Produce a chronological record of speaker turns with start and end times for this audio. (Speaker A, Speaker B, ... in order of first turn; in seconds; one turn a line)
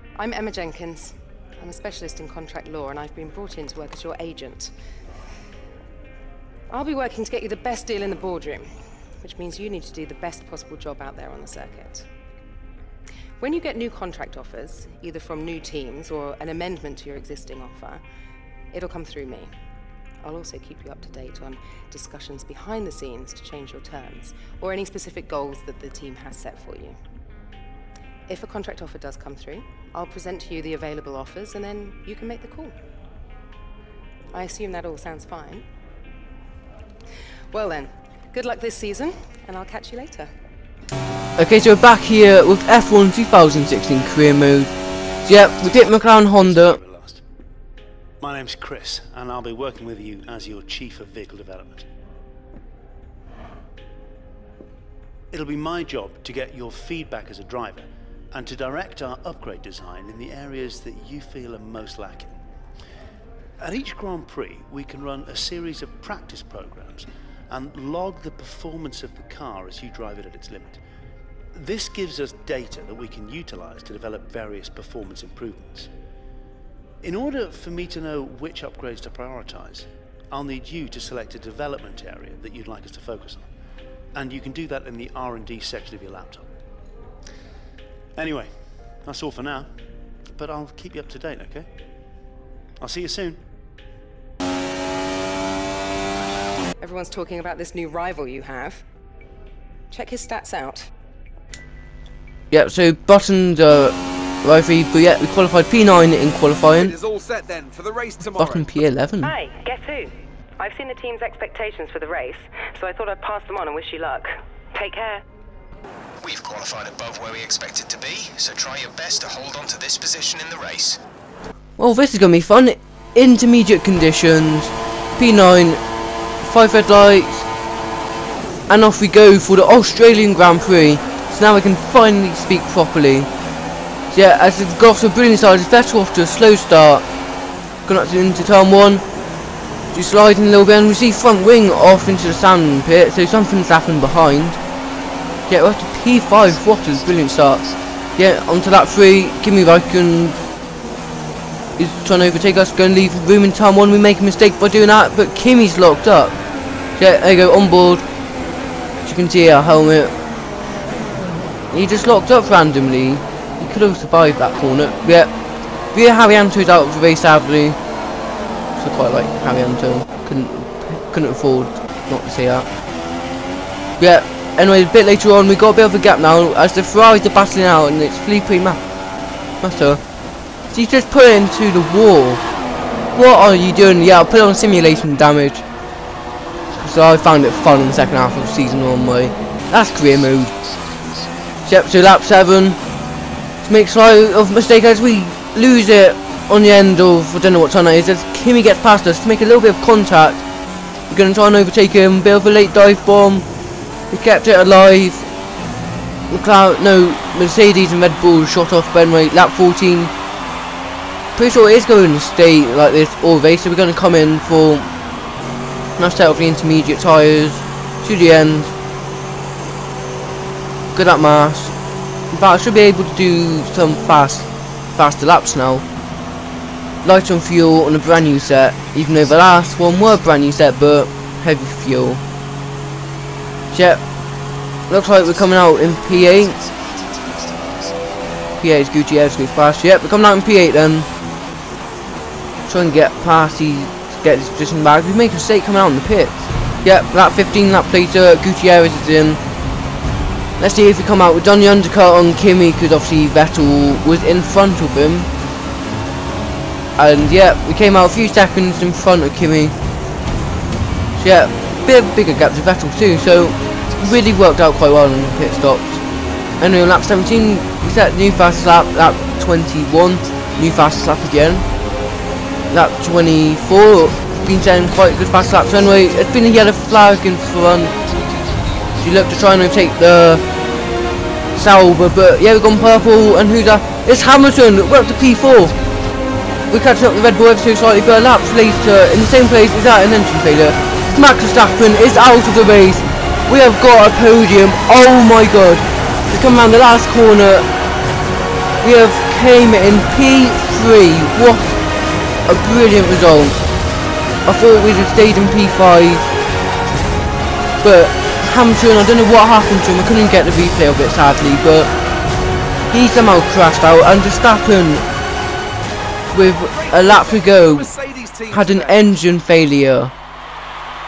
Speaker A: 0.1-4.7
Speaker A: 6.7-8.7
Speaker A: 9.2-12.1
Speaker A: 13.4-18.0
Speaker A: 18.7-19.5
Speaker A: 20.2-27.0
Speaker A: 28.3-32.8
Speaker A: 34.3-35.6
Speaker A: 37.5-40.3
Speaker B: 41.4-44.7
Speaker B: 45.2-46.8
Speaker C: 45.7-47.2
Speaker C: 48.2-51.9
Speaker C: 55.3-62.3
Speaker C: 63.6-70.8
Speaker C: 71.5-75.9
Speaker C: 77.0-83.5
Speaker C: 84.1-86.5
Speaker C: 88.2-88.5
Speaker C: 89.0-89.7
Speaker C: 90.3-91.7
Speaker C: 92.8-93.4
Speaker A: 96.8-98.8
Speaker A: 99.9-100.9
Speaker B: 102.5-107.0
Speaker D: 106.7-108.7
Speaker B: 108.3-109.3
Speaker A: 109.2-115.2
Speaker E: 116.2-121.0
Speaker B: 121.8-125.8
Speaker B: 126.4-127.5
Speaker B: 128.7-133.3
Speaker B: 134.1-137.1
Speaker B: 137.9-139.0
Speaker B: 139.9-144.6
Speaker B: 145.5-147.6
Speaker B: 148.2-150.4
Speaker B: 151.8-156.4
Speaker B: 157.0-158.0
Speaker B: 159.1-160.1
Speaker B: 161.7-165.3
Speaker B: 165.9-167.8
Speaker B: 168.8-172.7
Speaker B: 174.0-178.8
Speaker B: 179.6-180.0
Speaker B: 180.7-182.4
Speaker B: 183.2-185.6
Speaker B: 186.8-190.5
Speaker B: 191.7-192.8
Speaker B: 193.7-200.4
Speaker B: 201.1-203.5
Speaker B: 204.1-205.3
Speaker B: 206.3-210.1
Speaker B: 211.4-214.9
Speaker B: 216.0-218.7
Speaker B: 220.9-221.7
Speaker B: 222.3-225.8
Speaker B: 227.0-232.2
Speaker B: 233.7-234.0
Speaker B: 234.9-236.6
Speaker E: 236.3-237.4
Speaker B: 238.6-241.1
Speaker B: 242.7-249.4
Speaker B: 250.6-255.3
Speaker B: 257.0-259.7
Speaker B: 261.2-266.0
Speaker B: 266.6-271.6
Speaker B: 272.7-277.9
Speaker B: 279.0-280.4
Speaker B: 281.6-285.8
Speaker B: 286.7-297.7
Speaker B: 298.8-301.8
Speaker B: 302.5-303.6
Speaker B: 304.5-306.3
Speaker B: 307.8-311.9
Speaker B: 312.9-315.0
Speaker B: 316.3-317.9
Speaker D: 316.7-319.1
Speaker B: 318.5-320.1